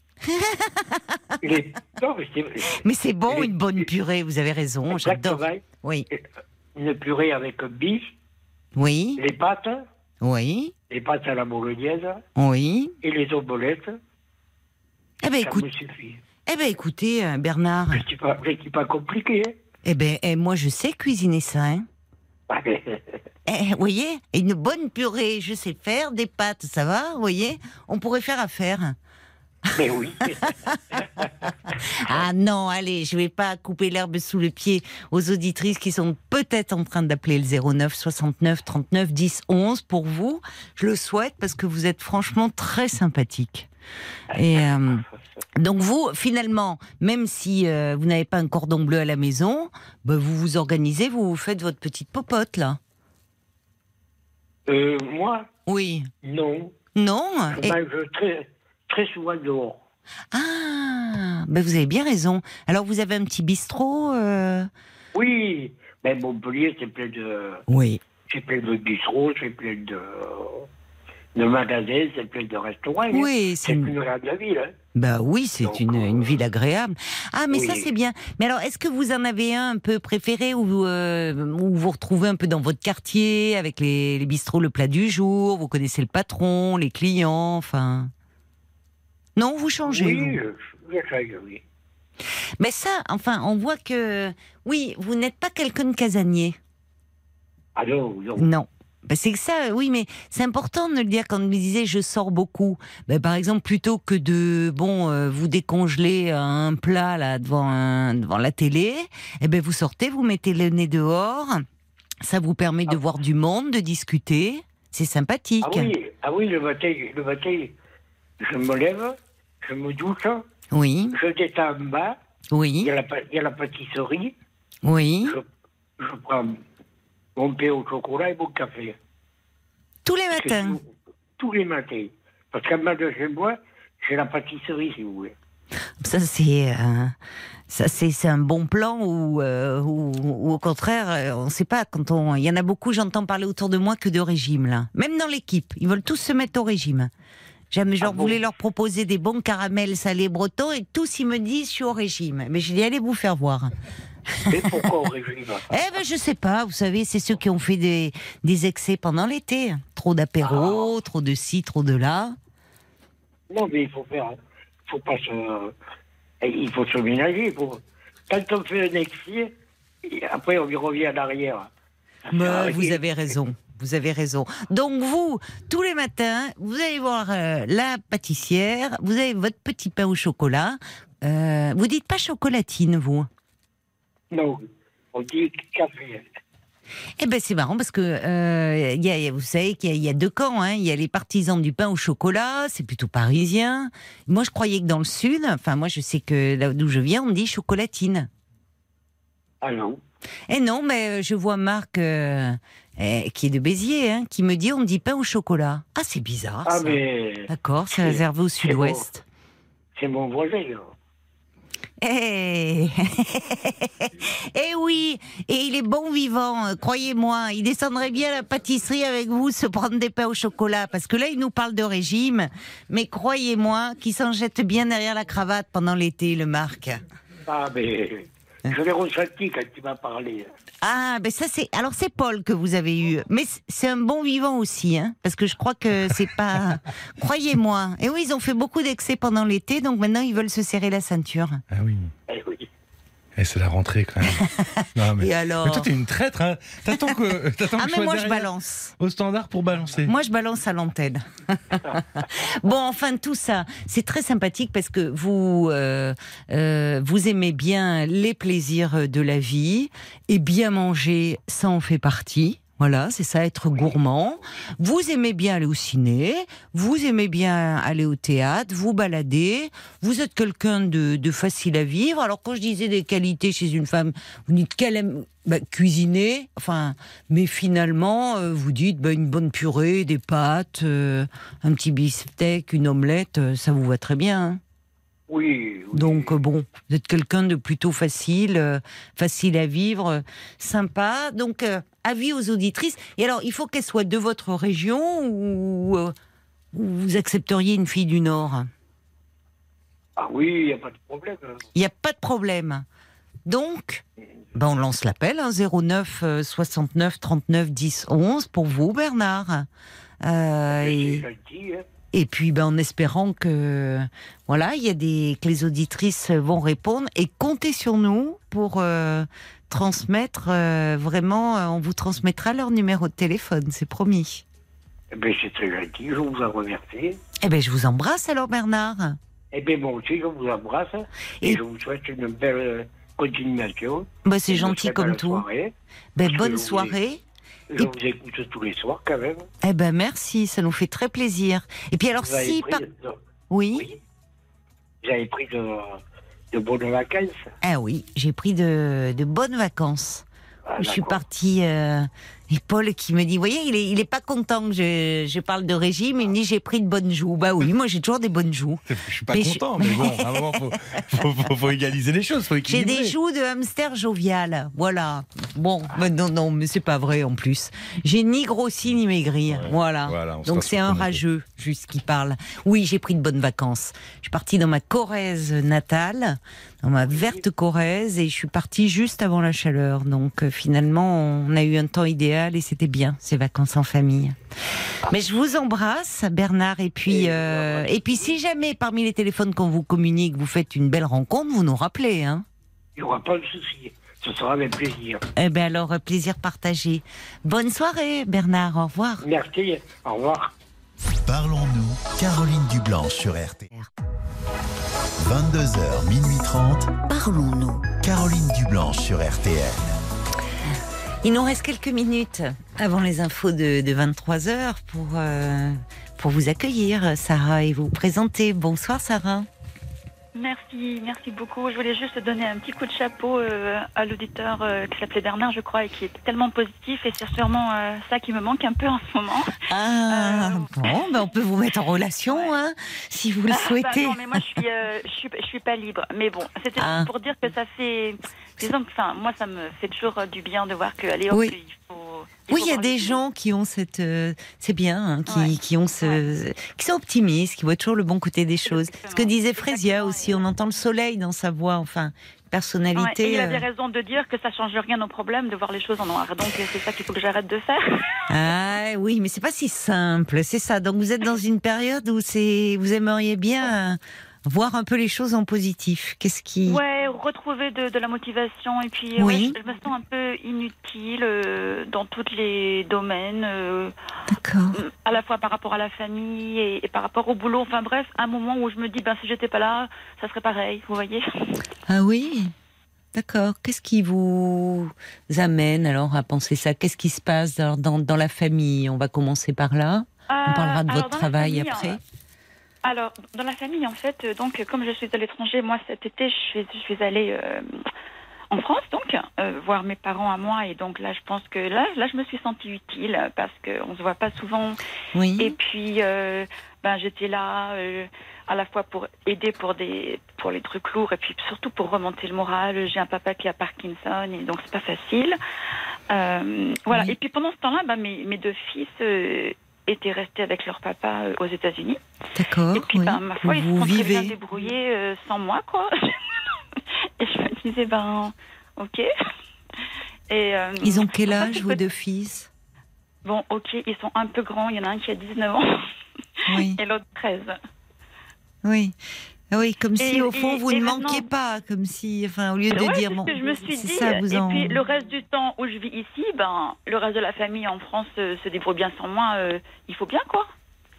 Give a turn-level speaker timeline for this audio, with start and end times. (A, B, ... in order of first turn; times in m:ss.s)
0:00.2-0:01.3 A
0:01.4-0:03.8 B
0:02.8-0:06.1 A
0:04.9-0:06.2 B
0:06.7-0:08.1 B
0:08.7-0:09.2 A
0:09.2-0:09.8 B
0:10.2-0:10.7 A
0:10.9-0:12.2 B
0:12.4-0:13.0 A
0:13.0-0:14.0 B
0:15.2-0:15.7 A
0:15.4-0:16.2 B
0:16.4-0:18.0 A
0:17.9-0:19.6 B
0:19.8-0:21.9 A
0:22.5-0:23.2 B
0:23.4-0:29.0 A
0:29.7-0:31.0 A
0:29.8-0:31.5 B
0:31.7-0:43.7 A
0:44.3-0:45.0 A
0:45.6-0:52.8 A
0:54.7-0:55.5 B
0:55.6-0:56.1 A
0:56.2-0:56.7 B
0:56.9-0:57.8 A
0:57.5-0:59.8 B
1:00.3-1:04.7 A
1:05.1-1:07.6 B
1:07.7-1:08.0 A
1:08.3-1:10.7 B
1:11.3-1:14.7 B
1:13.1-1:13.9 A
1:14.9-1:28.1 A
1:15.6-1:16.4 B
1:17.5-1:17.9 B
1:29.4-1:30.4 A
1:29.9-1:31.6 B
1:32.6-1:36.6 A
1:37.8-1:38.5 B
1:38.4-1:51.6 A
1:52.2-1:55.9 A
1:55.6-1:57.8 B
1:58.4-2:00.4 B
2:00.7-2:01.2 A
2:01.1-2:02.2 B
2:02.5-2:02.9 A
2:02.8-2:04.4 B
2:04.8-2:05.4 A
2:06.0-2:06.6 B
2:07.4-2:09.0 B
2:10.0-2:10.8 A
2:10.4-2:15.3 B
2:16.0-2:17.2 A
2:17.7-2:27.1 A
2:27.7-2:33.7 A
2:28.0-2:28.4 B
2:34.3-2:34.9 A
2:34.5-2:35.8 B
2:35.7-2:42.4 A
2:40.4-2:40.9 B
2:43.5-2:45.7 B
2:46.4-2:51.7 B
2:52.2-2:53.0 B
2:52.3-3:03.3 A
3:04.3-3:06.2 B
3:07.2-3:18.3 A
3:19.6-3:20.0 B
3:20.5-3:29.2 A
3:26.6-3:29.0 B
3:29.9-3:30.9 B
3:32.0-3:47.0 A
3:47.4-3:50.5 B
3:50.8-4:01.6 A
4:01.7-4:02.1 C
4:02.3-4:02.7 B
4:03.4-4:10.1 C
4:05.1-4:05.9 A
4:07.0-4:08.9 A
4:10.0-4:44.6 A
4:45.3-4:46.3 B
4:45.9-4:56.1 A
4:56.7-4:58.7 A
5:00.2-5:01.6 B
5:01.7-5:02.8 A
5:03.4-5:09.7 A
5:10.2-5:11.2 A
5:10.7-5:11.8 B
5:12.1-5:24.4 A
5:25.1-5:27.2 B
5:27.4-5:29.2 A
5:29.5-5:37.0 B
5:34.2-5:35.4 A
5:36.2-5:37.2 A
5:37.7-5:39.5 B
5:39.6-5:42.8 A
5:42.2-5:43.2 B
5:43.5-5:43.9 A
5:45.0-5:46.0 B
5:46.5-5:47.5 B
5:47.6-5:50.2 A
5:50.6-5:51.2 B
5:50.8-6:01.2 A
5:58.9-6:03.1 C
6:02.6-6:24.4 A
6:09.5-6:11.2 C
6:17.0-6:17.4 B
6:25.0-6:32.4 A
6:27.0-6:28.3 B
6:33.0-6:35.2 B
6:35.4-6:39.2 A
6:39.2-6:40.5 B
6:41.2-6:43.7 D
6:45.2-6:47.0 D
6:47.0-6:47.9 A
6:48.0-6:50.0 D
6:51.2-6:59.5 A
7:00.3-7:11.2 E
7:09.7-7:14.6 A
7:12.3-7:12.5 E
7:13.5-7:23.2 E
7:16.8-7:17.1 A
7:21.3-7:21.6 A
7:22.5-7:33.6 A
7:25.3-7:25.5 E
7:28.7-7:30.4 E
7:32.9-7:38.3 E
7:38.3-7:46.8 A
7:46.6-7:53.9 E
7:49.2-7:49.6 A
7:54.3-7:54.8 A
7:54.7-8:01.6 E
8:01.9-8:02.5 A
8:03.1-8:12.0 A
8:10.3-8:12.0 E
8:12.8-8:17.8 E
8:18.5-8:24.8 E
8:25.1-8:25.5 A
8:25.4-8:35.4 E
8:36.1-8:42.0 E
8:42.3-8:44.4 A
8:42.7-8:49.1 E
8:49.8-8:51.8 E
8:50.8-8:52.5 A
8:53.2-8:55.8 E
8:56.4-8:57.6 E
8:56.5-8:56.8 A
8:58.6-8:59.0 A
8:59.5-9:04.8 A
9:00.0-9:01.3 E
9:02.7-9:10.5 E